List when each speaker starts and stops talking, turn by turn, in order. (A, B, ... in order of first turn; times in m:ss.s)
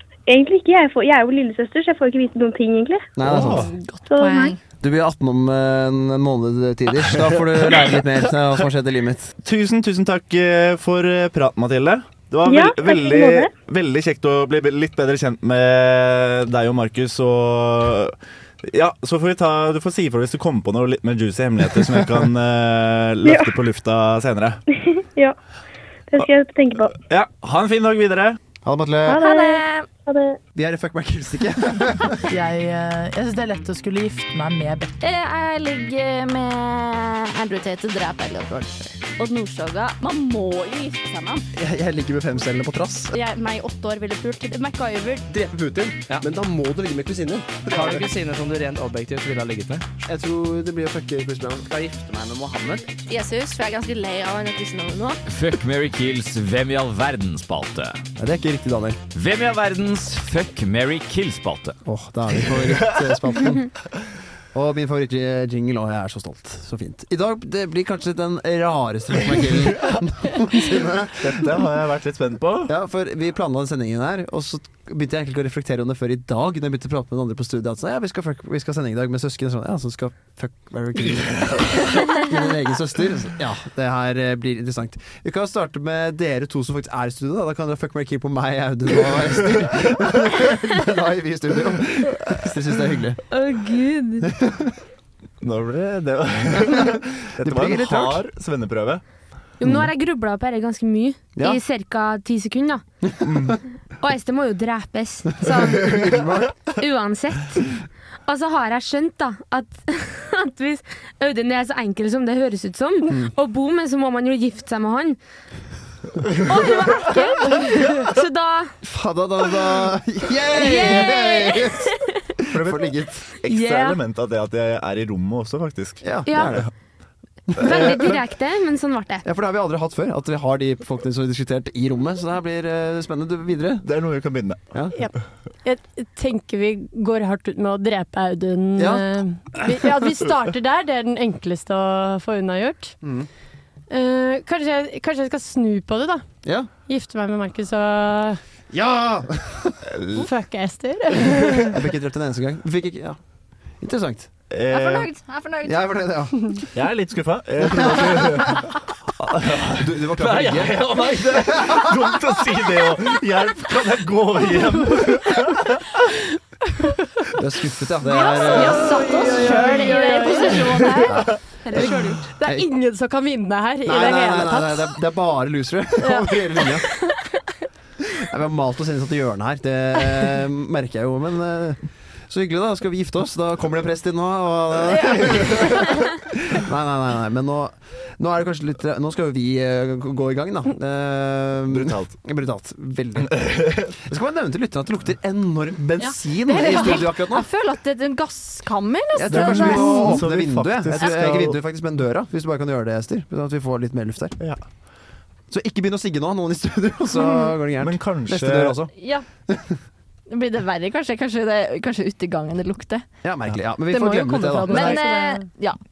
0:00.3-0:03.1 A
0:03.2-0:03.7 B
0:03.2-0:03.7 C
0:03.4-0:04.6 D
0:04.1-0:04.6 A
0:04.8-0:09.3 B
0:09.4-0:24.6 C
0:12.5-0:13.5 A
0:23.2-0:23.5 A
0:24.7-0:25.4 A
0:26.1-0:27.0 A
0:27.0-0:28.4 C
0:28.6-0:29.2 B
0:29.1-0:30.4 A
0:29.1-0:29.9 D
0:30.6-0:32.3 B
0:32.3-0:34.9 E
0:35.0-0:41.4 D
0:41.5-0:43.2 B
0:43.1-0:45.2 D
0:45.3-0:48.0 B
0:47.7-0:49.9 F
0:50.1-0:52.9 B
0:53.1-0:55.2 D
0:55.3-0:58.0 G
0:58.2-0:59.0 B
0:59.1-1:01.8 G
1:01.8-1:03.7 B
1:04.5-1:11.6 B
1:11.2-1:12.7 C
1:12.7-1:33.2 B
1:33.3-1:34.3 H
1:34.2-1:34.7 B
1:35.4-1:39.0 C
1:37.4-1:38.2 B
1:39.6-1:42.8 H
1:43.2-1:43.6 C
1:44.0-1:46.0 H
1:45.8-1:46.5 B
1:46.8-1:47.7 H
1:48.3-1:55.2 H
1:56.3-1:57.0 C
1:56.5-1:58.7 H
1:56.7-1:57.5 D
1:58.8-2:01.9 B
2:00.6-2:01.9 H
2:02.5-2:03.2 B
2:02.5-2:06.6 C
2:03.5-2:04.0 H
2:06.0-2:06.7 B
2:06.3-2:06.6 H
2:07.5-2:08.2 B
2:07.6-2:09.3 H
2:09.2-2:13.8 B
2:13.8-2:14.6 C
2:15.6-2:23.0 I
2:18.8-2:19.1 B
2:23.0-2:23.3 B
2:23.9-2:26.2 I
2:26.4-2:26.7 B
2:26.9-2:28.4 I
2:28.7-2:29.8 B
2:29.9-2:30.2 C
2:30.1-2:31.8 I
2:31.6-2:33.2 B
2:33.8-2:34.3 B
2:34.5-2:35.1 C
2:34.7-2:35.8 D
2:35.6-2:36.6 B
2:36.7-2:46.0 C
2:37.7-2:38.5 B
2:39.7-2:40.8 B
2:41.5-2:41.9 B
2:47.4-2:49.0 B
2:48.0-2:51.2 D
2:48.6-2:51.1 I
2:51.1-2:52.6 B
2:51.6-2:52.3 H
2:51.8-2:55.0 I
2:53.8-2:56.9 B
2:56.0-2:56.8 I
2:58.2-3:17.5 B
3:11.7-3:12.1 C
3:13.4-3:13.9 C
3:16.0-3:20.2 D
3:19.2-3:24.4 B
3:19.3-3:21.6 C
3:25.5-3:28.9 B
3:27.8-3:28.8 C
3:29.0-3:29.3 D
3:29.5-3:29.8 B
3:30.3-3:33.0 D
3:33.2-3:35.1 B
3:33.9-3:35.5 I
3:34.7-3:35.8 D